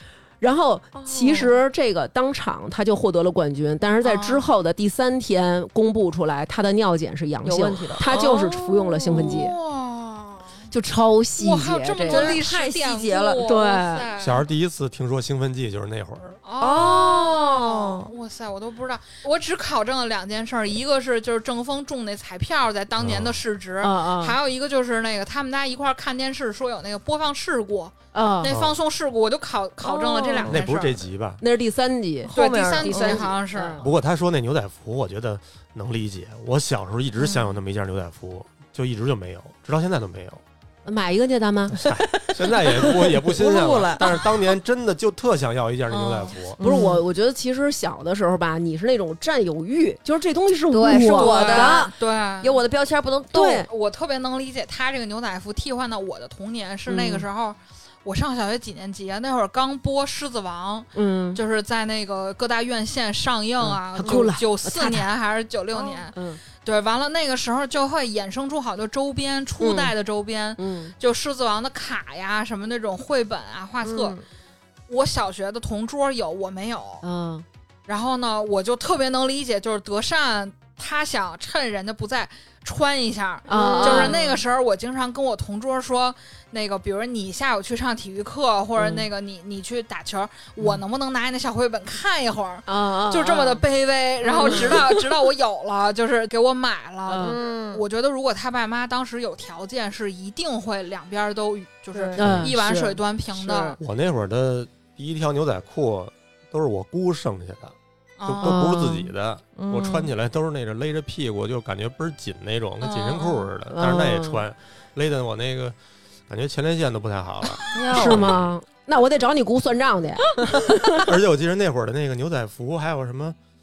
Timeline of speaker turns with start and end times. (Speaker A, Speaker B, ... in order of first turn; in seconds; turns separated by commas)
Speaker A: 0.4-9.6, Speaker B: 1.0-1.5, Speaker C: 4.0-4.5, Speaker B: 7.4-8.4, Speaker C: 8.1-10.6, Speaker B: 9.1-9.4, Speaker A: 10.7-12.4, Speaker C: 11.4-14.5, Speaker B: 12.1-13.4, Speaker A: 13.4-14.1, Speaker D: 14.2-16.4, Speaker C: 16.4-31.1, Speaker B: 16.6-18.1, Speaker D: 23.0-23.4, Speaker A: 23.8-24.4, Speaker A: 28.1-28.5, Speaker D: 28.5-28.8, Speaker B: 29.8-30.6, Speaker D: 30.5-31.4, Speaker A: 31.4-33.9, Speaker B: 32.3-33.3, Speaker C: 32.4-33.8, Speaker D: 33.8-40.4, Speaker A: 40.9-41.8, Speaker D: 41.8-46.6, Speaker B: 41.8-44.5, Speaker C: 45.9-46.4, Speaker B: 46.6-47.0, Speaker A: 46.6-51.9, Speaker B: 50.7-51.9, Speaker C: 51.1-52.6, Speaker B: 52.4-53.6, Speaker A: 53.3-53.7, Speaker C: 53.7-74.2, Speaker A: 56.9-57.3, Speaker A: 60.9-61.4, Speaker A: 63.6-65.1, Speaker A: 65.8-66.4, Speaker A: 69.6-69.9, Speaker A: 70.6-71.0, Speaker B: 73.8-74.2, Speaker C: 74.9-77.1, Speaker A: 77.0-77.5, Speaker C: 77.9-103.8, Speaker A: 83.5-84.3, Speaker B: 83.5-84.3, Speaker A: 88.8-89.1, Speaker A: 92.7-93.7, Speaker A: 94.2-94.9, Speaker B: 94.4-94.8, Speaker A: 97.1-97.4, Speaker B: 97.2-97.8, Speaker B: 101.9-102.2, Speaker A: 102.2-103.8, Speaker D: 103.8-107.7, Speaker C: 108.2-108.8, Speaker D: 108.2-115.8, Speaker A: 108.4-109.1, Speaker B: 109.6-110.1, Speaker C: 112.8-113.5, Speaker A: 113.7-114.4, Speaker D: 116.3-118.5, Speaker B: 117.7-118.2, Speaker A: 117.9-121.2, Speaker D: 121.0-123.4